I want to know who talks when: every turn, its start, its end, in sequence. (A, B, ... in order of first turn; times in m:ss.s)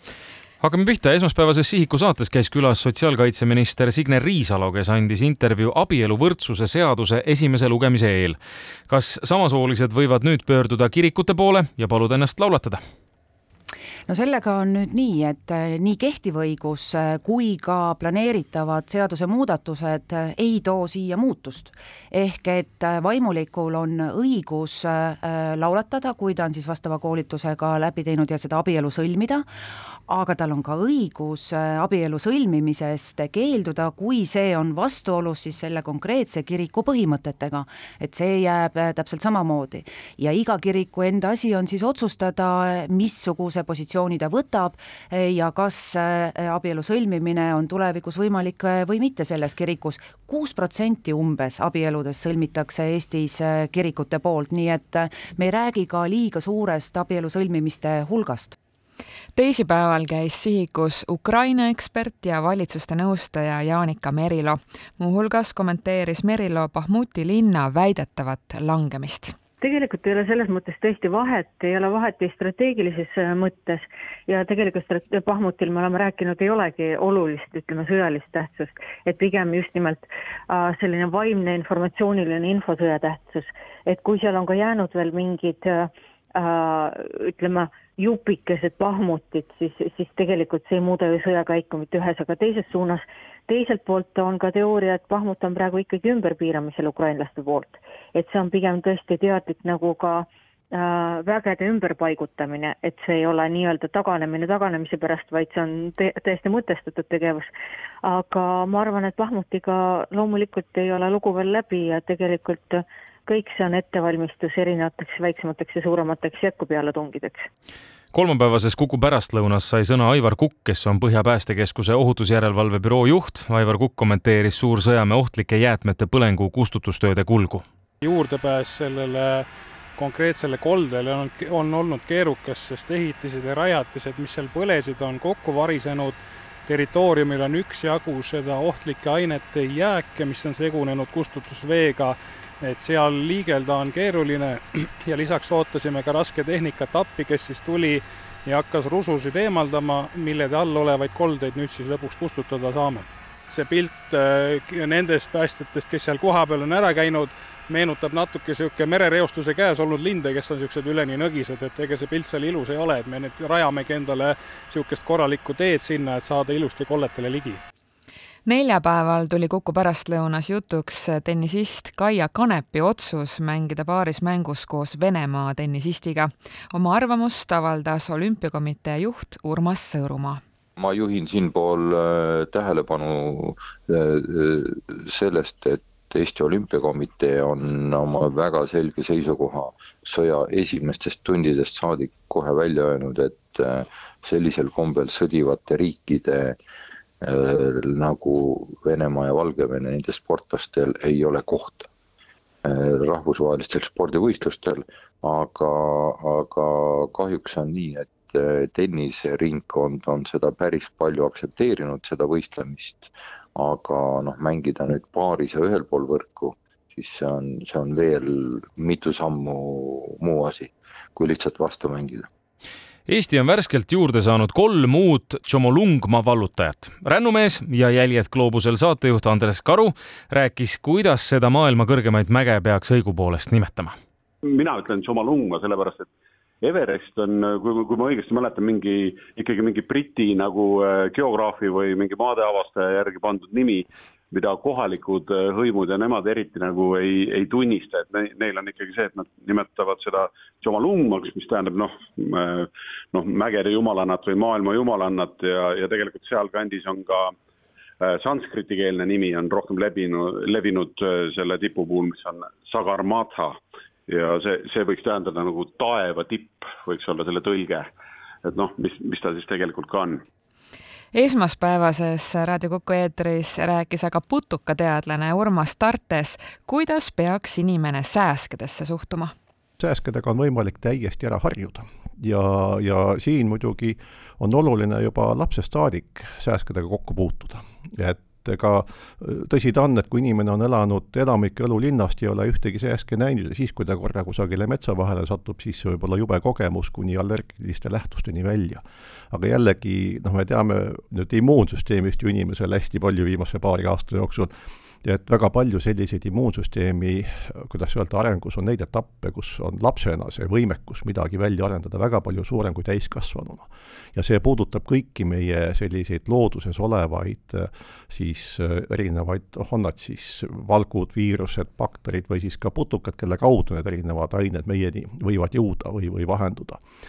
0:00.6-0:12.8 A
0:14.1-0:29.5 B
0:30.1-0:58.6 B
0:59.4-1:09.4 C
1:09.6-1:47.5 D
1:48.0-1:57.5 D
1:58.1-2:07.6 A
2:08.0-2:47.6 E
2:48.4-3:00.4 C
3:00.8-3:16.6 F
3:17.2-3:21.9 F
3:22.6-3:42.3 F
3:43.0-3:53.9 A
3:54.4-3:56.1 G
3:56.6-4:17.3 G
4:18.0-4:27.9 G
4:28.4-4:30.2 G
4:31.1-4:39.3 C
4:39.8-5:04.5 H
5:05.0-5:26.8 H